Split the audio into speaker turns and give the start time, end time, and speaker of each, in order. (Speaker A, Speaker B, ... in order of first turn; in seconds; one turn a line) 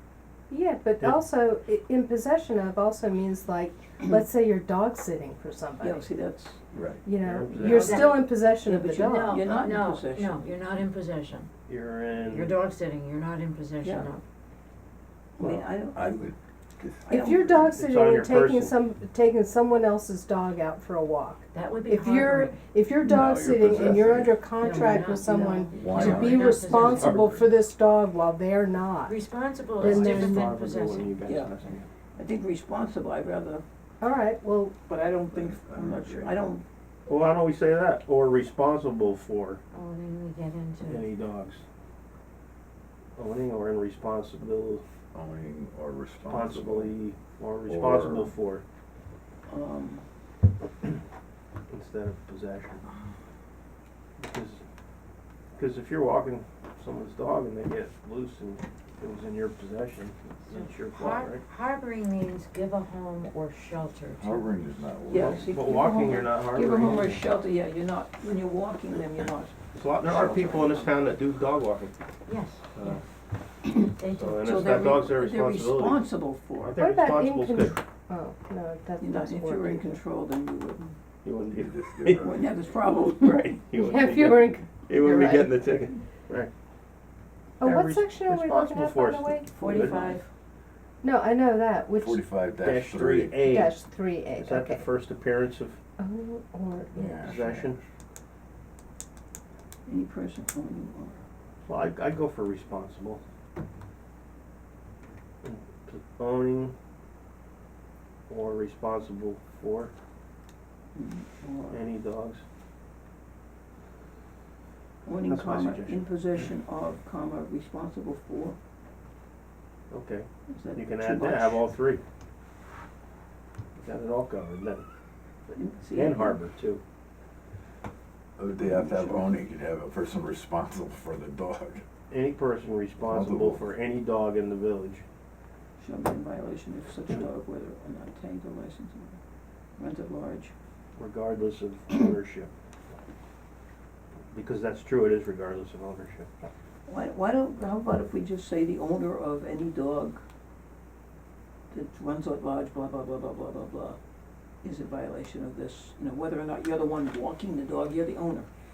Speaker A: 0.5-6.1
Speaker B: 5.8-6.7
Speaker C: 6.7-7.0
Speaker A: 7.0-9.4
Speaker D: 7.2-8.2
Speaker B: 7.5-10.4
Speaker E: 7.6-8.2
Speaker E: 9.0-11.5
Speaker D: 11.7-12.6
Speaker E: 12.3-14.2
Speaker B: 13.8-14.1
Speaker B: 15.4-16.3
Speaker C: 15.4-17.0
Speaker B: 17.1-17.7
Speaker A: 17.1-29.2
Speaker D: 17.7-18.8
Speaker E: 21.5-22.6
Speaker C: 23.0-24.5
Speaker E: 24.6-27.3
Speaker C: 25.7-27.1
Speaker D: 26.8-27.2
Speaker E: 29.1-31.1
Speaker D: 29.8-31.9
Speaker A: 29.8-30.3
Speaker B: 31.2-31.5
Speaker B: 32.1-33.6
Speaker A: 34.0-34.7
Speaker B: 34.9-36.6
Speaker C: 35.3-36.5
Speaker D: 37.1-39.6
Speaker E: 39.7-41.1
Speaker D: 40.9-41.6
Speaker D: 43.1-44.8
Speaker C: 45.1-46.9
Speaker D: 46.2-48.6
Speaker C: 47.6-48.3
Speaker B: 49.5-50.0
Speaker D: 51.7-52.9
Speaker D: 54.2-54.6
Speaker D: 55.5-61.4
Speaker E: 60.5-64.5
Speaker C: 64.2-65.5
Speaker B: 65.1-70.9
Speaker D: 65.1-67.2
Speaker D: 69.7-72.0
Speaker E: 72.3-73.0
Speaker D: 72.7-73.0
Speaker E: 74.0-75.0
Speaker D: 74.2-76.1
Speaker B: 74.4-76.8
Speaker D: 76.6-77.8
Speaker A: 76.8-80.0
Speaker B: 79.0-80.9
Speaker D: 81.2-86.5
Speaker C: 81.5-82.5
Speaker B: 82.2-83.6
Speaker A: 83.7-85.6
Speaker A: 87.6-89.5
Speaker D: 87.6-90.0
Speaker B: 89.5-90.3
Speaker E: 89.6-90.2
Speaker A: 91.0-92.3
Speaker C: 91.9-93.7
Speaker D: 92.6-95.8
Speaker A: 93.4-94.8
Speaker A: 96.0-97.2
Speaker C: 96.9-97.8
Speaker D: 97.2-97.8
Speaker B: 99.8-101.2
Speaker D: 101.6-103.2
Speaker D: 105.4-106.7
Speaker D: 108.3-109.9
Speaker B: 110.9-111.8
Speaker D: 111.7-112.4
Speaker B: 115.0-118.5
Speaker D: 115.2-116.0
Speaker D: 119.9-122.0
Speaker B: 120.5-121.6
Speaker D: 123.8-124.8
Speaker B: 125.5-126.4
Speaker D: 125.9-126.8
Speaker C: 128.4-131.8
Speaker B: 128.6-129.3
Speaker D: 132.1-135.0
Speaker C: 133.0-133.6
Speaker B: 135.8-139.2
Speaker B: 139.8-140.5
Speaker D: 140.9-142.5
Speaker D: 144.3-146.3
Speaker B: 146.8-150.2
Speaker B: 151.7-154.0
Speaker B: 154.6-158.5